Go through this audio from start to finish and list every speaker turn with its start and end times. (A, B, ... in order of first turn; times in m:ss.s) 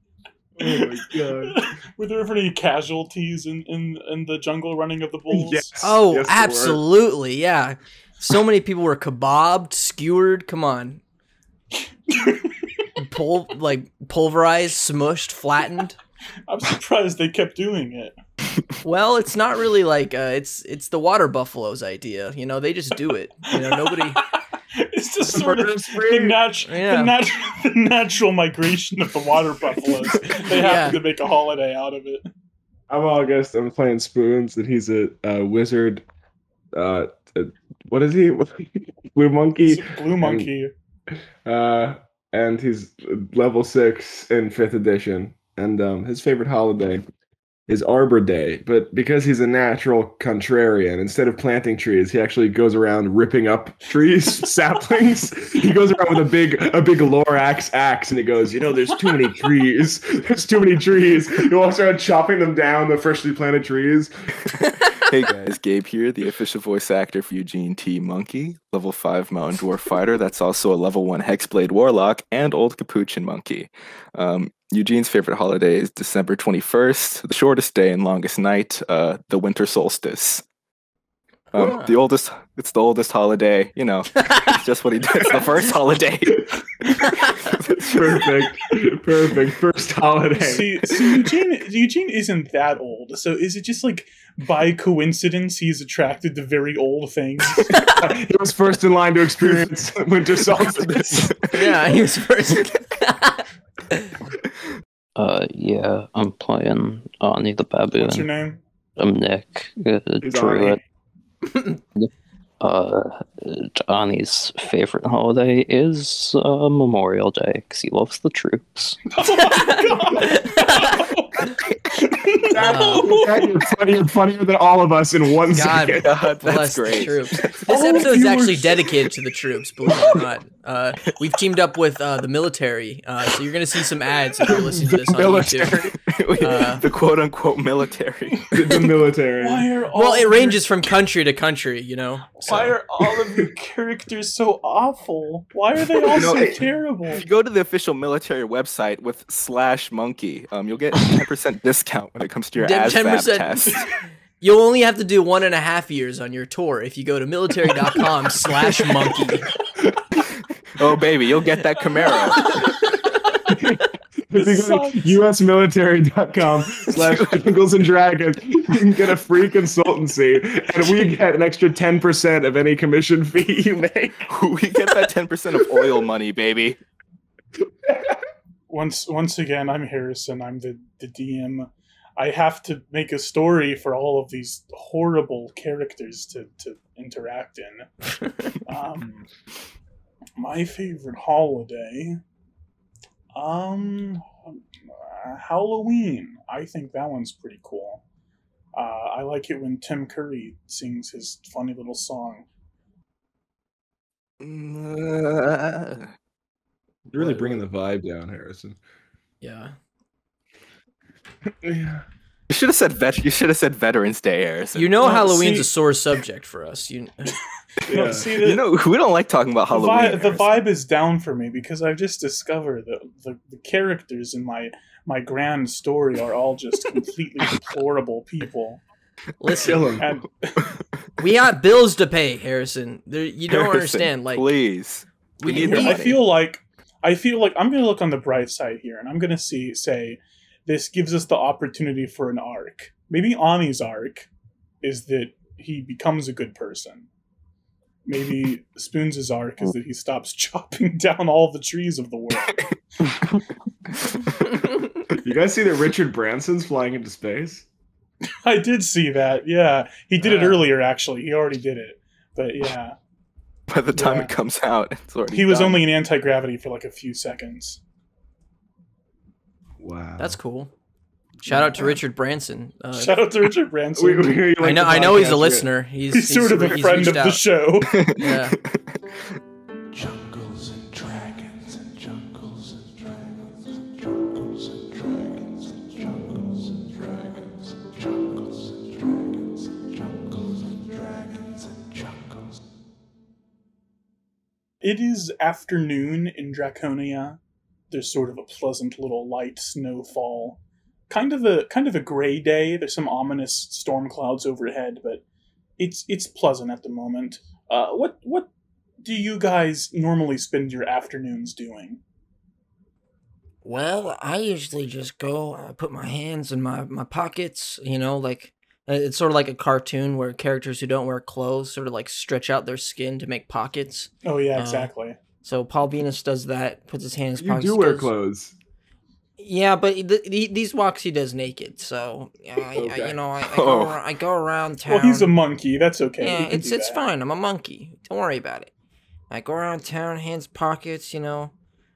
0:00.6-0:01.6 A
0:00.6-0:05.7 B
0:05.3-0:06.8 A
0:05.8-0:11.0 C
0:12.1-0:12.6 B
0:13.0-0:16.0 C
0:16.5-0:18.2 B
0:18.8-0:24.2 C
0:23.6-0:32.3 B
0:25.2-0:26.4 A
0:26.6-0:27.1 C
0:30.6-0:31.0 C
0:32.9-0:36.0 A
0:36.7-0:40.5 A
0:39.6-0:40.7 B
0:41.4-0:47.0 A
0:47.7-1:04.1 A
1:04.8-1:20.4 D
1:21.5-1:26.5 D
1:21.6-1:21.9 C
1:27.4-1:28.1 D
1:27.7-1:31.1 A
1:30.3-1:37.9 B
1:37.9-1:41.3 A
1:40.8-1:41.6 D
1:41.5-1:43.4 C
1:45.2-1:48.3 E
1:47.9-1:48.6 B
1:49.0-1:50.8 E
1:50.2-1:50.8 A
1:52.6-1:59.0 E
1:59.1-2:03.5 B
1:59.5-1:59.8 C
2:02.4-2:06.2 A
2:02.6-2:03.1 C
2:05.5-2:16.8 C
2:06.0-2:07.6 D
2:07.6-2:08.9 B
2:14.5-2:16.0 A
2:16.0-2:18.5 D
2:18.5-2:19.7 A
2:19.4-2:20.6 B
2:20.0-2:22.7 C
2:22.4-2:27.2 B
2:26.1-2:26.6 D
2:26.1-2:26.6 A
2:27.1-2:33.8 D
2:32.6-2:33.8 C
2:34.4-2:39.5 C
2:40.7-2:42.7 D
2:42.0-2:42.5 B
2:43.5-2:54.3 A
2:44.4-2:45.2 B
2:46.9-2:47.4 D
2:54.3-2:56.8 D
2:57.8-2:58.2 A
2:58.7-3:07.9 B
3:08.6-3:09.3 B
3:10.4-3:12.2 B
3:13.3-3:18.0 B
3:18.7-3:22.4 B
3:24.4-3:26.1 D
3:27.1-3:28.8 A
3:27.2-3:27.5 C
3:29.4-3:29.7 C
3:31.6-3:32.0 A
3:32.5-3:35.1 D
3:34.7-3:37.4 C
3:35.0-3:35.7 B
3:37.9-3:38.3 A
3:37.9-3:38.6 B
3:38.4-3:40.6 D
3:39.7-3:48.8 B
3:49.4-3:50.0 C
3:49.5-3:50.1 A
3:50.0-3:50.7 B
3:51.2-3:54.5 C
3:53.5-3:56.2 D
3:55.4-3:56.0 C
3:55.5-4:04.3 B
4:04.8-4:07.1 B
4:08.0-4:12.7 B
4:15.2-4:17.6 A
4:18.4-4:23.0 B
4:23.7-4:25.9 D
4:23.9-4:24.3 B
4:25.3-4:27.8 B
4:29.8-4:30.4 A
4:30.2-4:30.7 C
4:31.4-4:33.2 C
4:31.5-4:32.0 A
4:32.9-4:34.5 B
4:33.9-4:35.7 A
4:34.6-4:37.4 C
4:36.1-4:38.0 B
4:37.9-4:39.0 D
4:38.1-4:38.6 C
4:39.9-4:52.6 F
4:54.8-4:57.4 B
4:57.9-5:05.2 B
5:05.8-5:08.5 B
5:09.0-5:12.0 B
5:13.6-5:24.9 C
5:24.2-5:25.2 B
5:25.4-5:28.1 C
5:27.4-5:28.6 A
5:29.4-5:35.3 C
5:32.6-5:33.2 A
5:33.4-5:34.0 D
5:34.8-5:37.0 B
5:36.2-5:38.7 C
5:39.3-5:41.5 C